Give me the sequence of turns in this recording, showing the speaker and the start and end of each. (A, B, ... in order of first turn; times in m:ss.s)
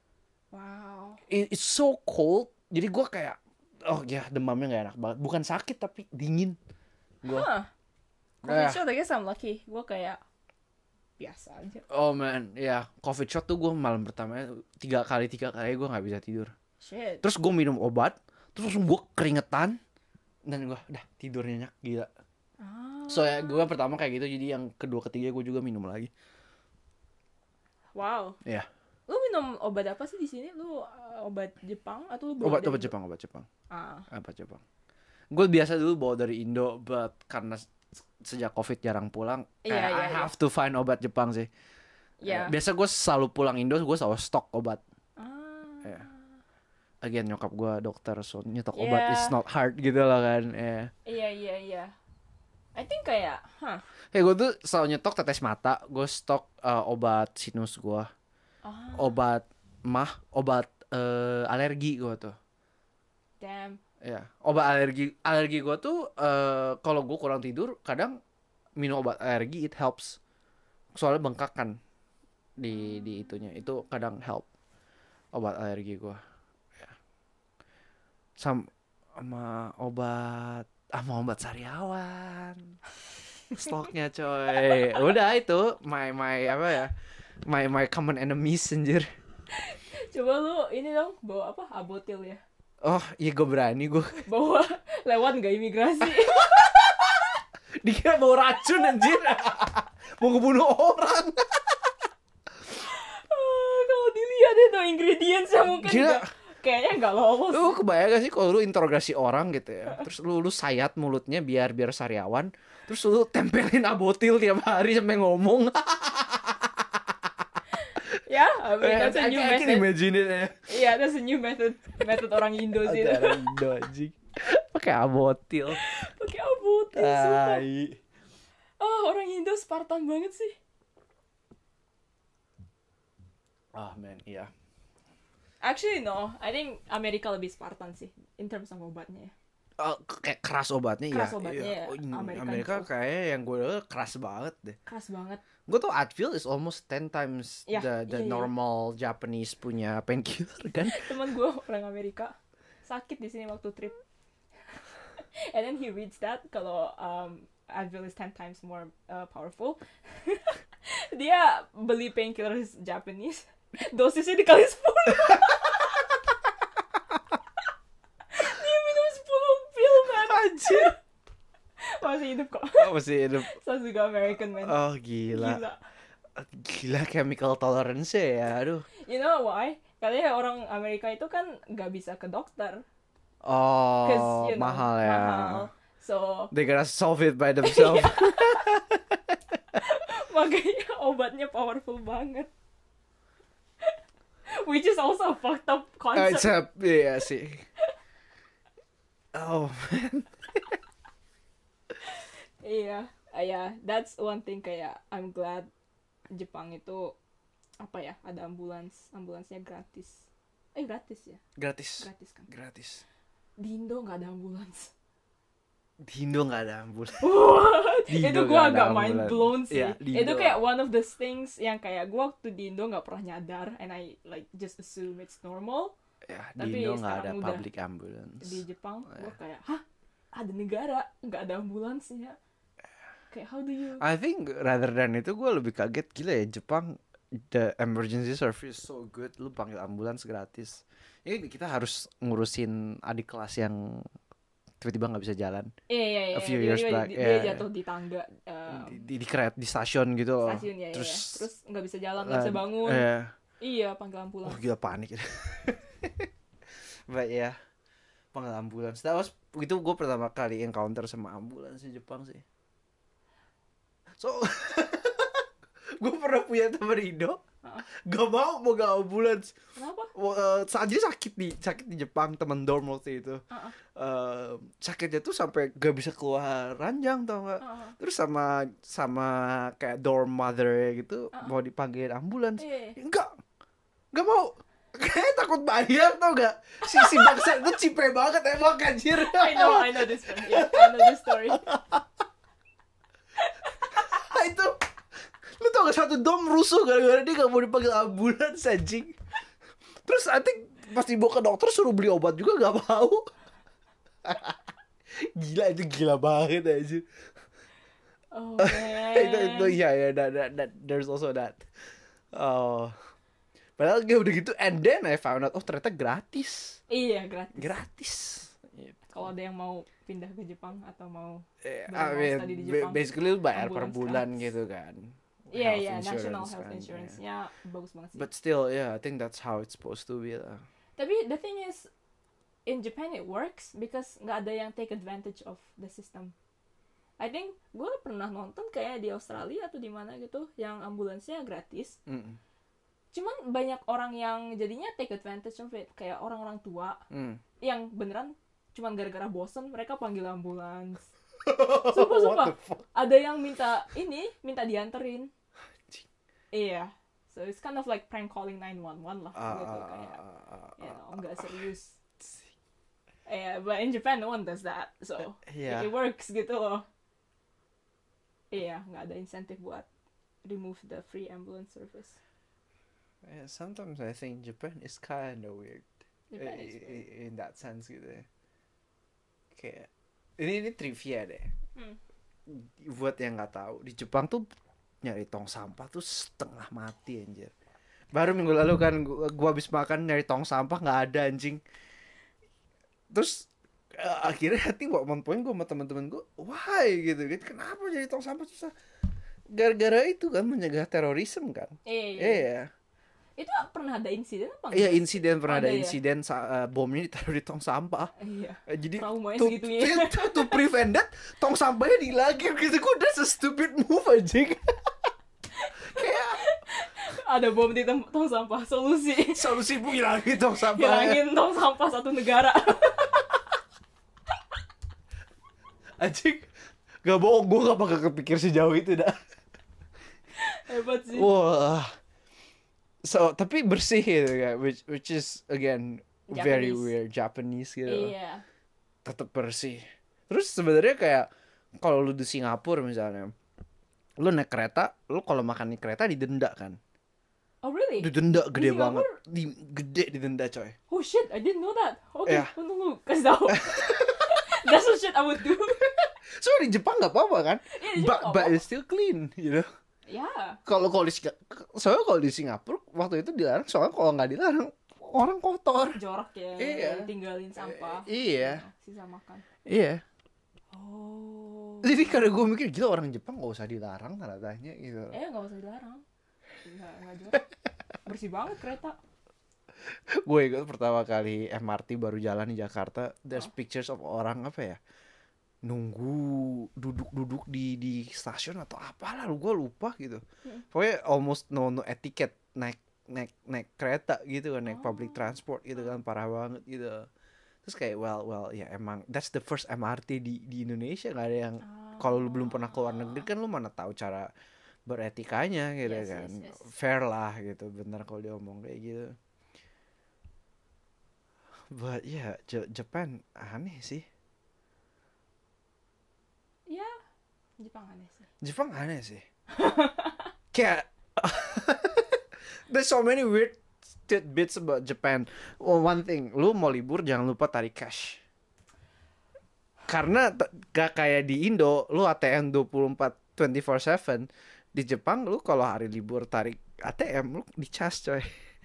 0:00.5-0:01.2 A
0:01.3-0:06.6 B
0:07.3-0:07.7 A
0:08.4-0:08.8 B
0:08.4-0:10.2 A
0:11.2-0:11.8 A
0:11.9-0:16.5 B
0:16.8-0:17.2 A
0:17.2-0:19.8 B
0:20.5-0:22.1 B
0:22.6-0:23.7 A
0:23.1-0:26.1 B
0:27.9-0:28.4 A
0:29.1-0:32.9 A
0:32.4-0:33.5 B
0:33.7-0:34.1 A
0:34.1-0:34.6 B
0:35.3-0:41.5 B
0:39.6-0:40.3 A
0:42.2-0:42.5 A
0:42.2-0:44.8 B
0:45.2-0:46.2 A
0:47.0-0:50.9 B
0:48.7-0:49.3 A
0:51.0-0:51.9 A
0:52.7-0:53.8 A
0:54.1-0:58.1 B
0:58.6-0:59.2 A
0:59.0-1:02.3 B
1:03.4-1:03.8 A
1:04.0-1:08.2 B
1:08.8-1:10.2 B
1:10.9-1:11.8 B
1:12.6-1:14.5 B
1:15.3-1:16.2 B
1:18.4-1:22.8 B
1:23.5-1:26.9 B
1:24.6-1:25.0 A
1:27.4-1:29.1 B
1:29.5-1:32.4 A
1:32.8-1:34.2 B
1:34.2-1:37.4 A
1:36.0-1:36.7 B
1:37.8-1:41.9 B
1:42.8-1:47.8 A
1:45.6-1:46.3 B
1:47.5-1:57.3 B
1:57.8-1:59.9 A
1:58.8-2:00.6 B
2:00.7-2:03.4 A
2:02.8-2:05.8 B
2:05.7-2:07.6 A
2:06.9-2:08.0 B
2:08.8-2:10.6 A
2:13.7-2:14.5 B
2:15.6-2:19.3 A
2:19.8-2:24.8 B
2:21.1-2:22.9 A
2:24.9-2:25.4 A
2:25.7-2:31.1 B
2:27.7-2:28.5 A
2:30.8-2:34.0 A
2:34.7-2:46.1 A
2:48.3-2:51.0 A
2:50.0-2:50.9 B
2:51.8-2:52.9 A
2:52.8-2:53.5 B
2:53.4-2:54.8 A
2:54.6-2:55.6 B
2:55.3-2:55.8 A
2:56.4-2:58.8 B
2:59.0-3:02.8 A
3:03.4-3:05.7 B
3:04.0-3:06.5 A
3:06.5-3:09.6 B
3:07.6-3:08.7 A
3:09.8-3:12.5 A
3:14.5-3:16.6 A
3:16.1-3:17.6 B
3:19.3-3:20.8 B
3:22.0-3:25.7 A
3:26.3-3:27.2 A
3:27.8-3:31.4 A
3:31.6-3:33.0 B
3:32.0-3:32.5 A
3:33.6-3:34.9 A
3:36.0-3:40.6 B
3:37.2-3:45.9 A
3:46.3-3:49.3 B
3:46.6-3:47.6 A
3:48.4-3:52.4 A
3:53.3-3:54.0 A
3:54.0-4:04.0 B
4:04.8-4:05.7 B
4:05.9-4:09.1 A
4:06.3-4:07.6 B
4:08.7-4:11.4 B
4:10.4-4:13.1 A
4:12.2-4:13.3 B
4:13.6-4:14.6 A
4:14.4-4:16.3 B
4:17.1-4:17.5 B
4:18.3-4:22.4 B
4:24.2-4:25.4 B
4:26.0-4:29.6 B
4:29.8-4:30.1 A
4:30.1-4:43.4 B
4:37.6-4:38.0 A
4:42.6-4:43.0 A
4:44.1-4:52.0 B
4:46.9-4:47.5 A
4:49.1-4:51.6 A
4:53.4-4:54.0 A
4:53.9-4:54.8 B
4:55.4-4:59.2 B
5:00.0-5:03.3 B
5:04.2-5:04.6 B
5:05.2-5:07.0 B
5:08.3-5:09.7 A
5:08.6-5:11.6 B
5:12.3-5:12.9 B
5:13.8-5:16.8 B
5:16.9-5:17.8 A
5:17.6-5:18.9 B
5:19.0-5:24.5 A
5:21.6-5:27.2 B
5:25.5-5:28.3 A
5:28.2-5:30.6 B
5:31.0-5:31.9 A
5:32.6-5:36.3 A
5:37.2-5:42.0 A
5:42.1-5:42.4 B
5:43.1-5:47.0 A
5:47.1-5:47.4 B
5:47.6-5:51.1 A
5:51.4-5:52.8 B
5:51.8-5:55.3 A
5:56.5-6:00.2 A
5:59.3-6:01.6 B
6:00.8-6:02.0 A
6:03.2-6:06.8 A
6:05.2-6:05.9 B
6:08.5-6:09.9 A
6:10.4-6:12.2 A
6:13.2-6:18.3 B
6:16.3-6:17.0 A
6:19.5-6:21.5 B
6:22.5-6:24.4 B
6:25.0-6:27.5 B
6:28.1-6:31.6 B
6:33.1-6:38.7 B
6:39.5-6:42.7 B
6:41.8-6:42.5 A
6:43.4-6:46.0 A
6:44.7-6:48.1 B
6:48.2-6:50.7 A
6:48.7-6:54.9 B
6:55.5-6:59.6 A
6:55.8-6:56.4 B
6:59.3-7:01.2 B
7:00.6-7:03.4 A
7:06.0-7:06.5 B
7:07.0-7:09.2 B
7:10.4-7:11.3 A
7:11.1-7:11.9 B
7:13.0-7:18.1 B
7:16.3-7:16.9 A
7:17.9-7:18.4 A
7:19.0-7:21.3 B
7:21.8-7:23.3 B
7:24.2-7:26.8 B
7:27.6-7:29.2 A
7:28.0-7:30.7 B
7:30.9-7:36.1 A
7:32.2-7:32.5 B
7:33.5-7:34.5 B
7:36.2-7:39.7 B
7:37.7-7:38.6 A
7:40.1-7:40.6 A
7:40.6-7:46.0 B
7:45.9-7:49.4 A
7:46.6-7:48.6 B
7:49.6-7:50.0 B
7:50.7-7:52.3 A
7:51.8-7:55.2 B
7:55.1-7:56.0 A
7:56.6-7:57.5 A
7:58.0-7:59.0 A
7:59.9-8:04.8 B
8:05.6-8:17.1 B
8:14.6-8:15.4 A
8:17.6-8:24.3 B
8:21.6-8:23.2 A
8:24.8-8:29.2 B
8:25.8-8:26.7 A
8:31.7-8:34.0 B
8:36.7-8:36.9 A
8:37.6-8:38.3 A
8:38.4-8:39.2 B
8:39.5-8:40.3 A
8:40.5-8:48.2 B
8:49.9-8:58.3 B